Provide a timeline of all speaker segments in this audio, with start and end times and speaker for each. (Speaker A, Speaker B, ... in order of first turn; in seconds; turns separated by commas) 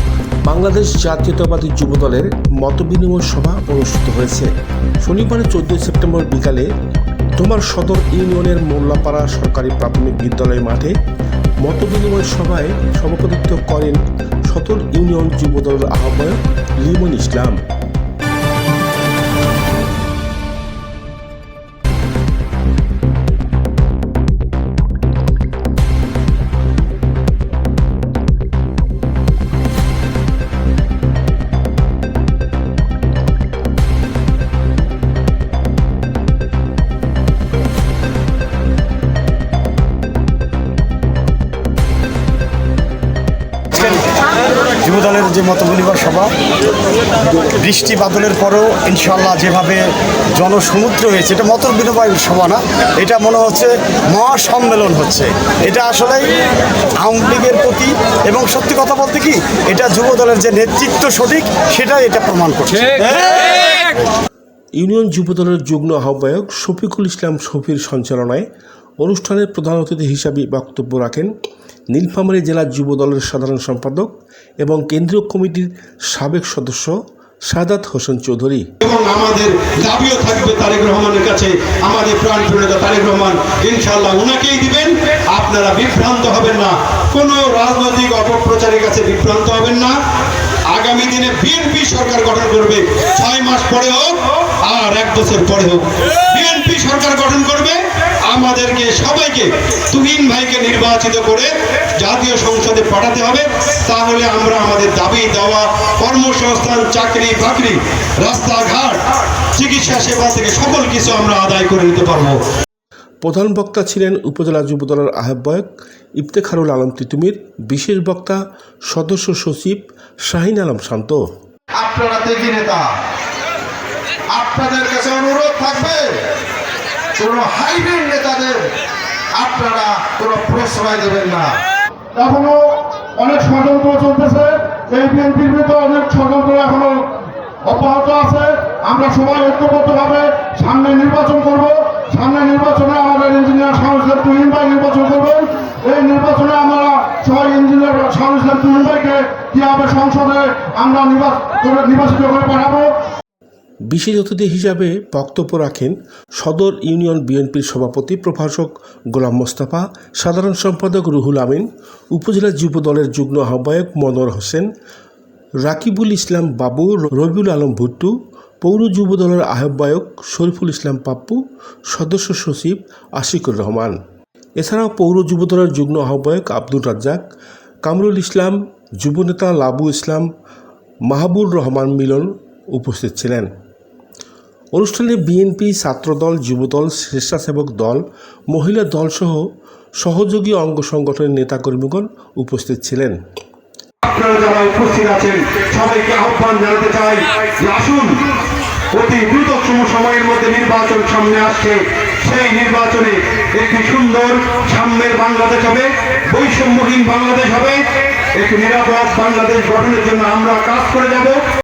Speaker A: 0.4-4.5, Speaker A: 5.0-6.7, Speaker A: 7.4-10.9, Speaker A: 11.6-17.6, Speaker B: 43.7-44.1, Speaker B: 44.8-46.3, Speaker B: 47.4-56.3, Speaker B: 57.0-63.8, Speaker A: 64.8-68.5, Speaker A: 69.0-71.3, Speaker A: 71.9-76.9, Speaker A: 77.5-78.7, Speaker C: 78.8-90.0, Speaker C: 90.7-112.4, Speaker A: 113.2-121.2, Speaker D: 121.8-122.9, Speaker D: 124.3-126.2, Speaker D: 127.2-128.7, Speaker D: 129.3-131.6, Speaker E: 132.1-152.9, Speaker A: 153.8-164.7, Speaker A: 165.6-174.0, Speaker A: 174.6-177.2, Speaker A: 177.8-180.3, Speaker A: 181.1-183.5, Speaker A: 184.7-189.5, Speaker A: 190.0-193.2, Speaker C: 194.0-198.3, Speaker C: 198.9-211.4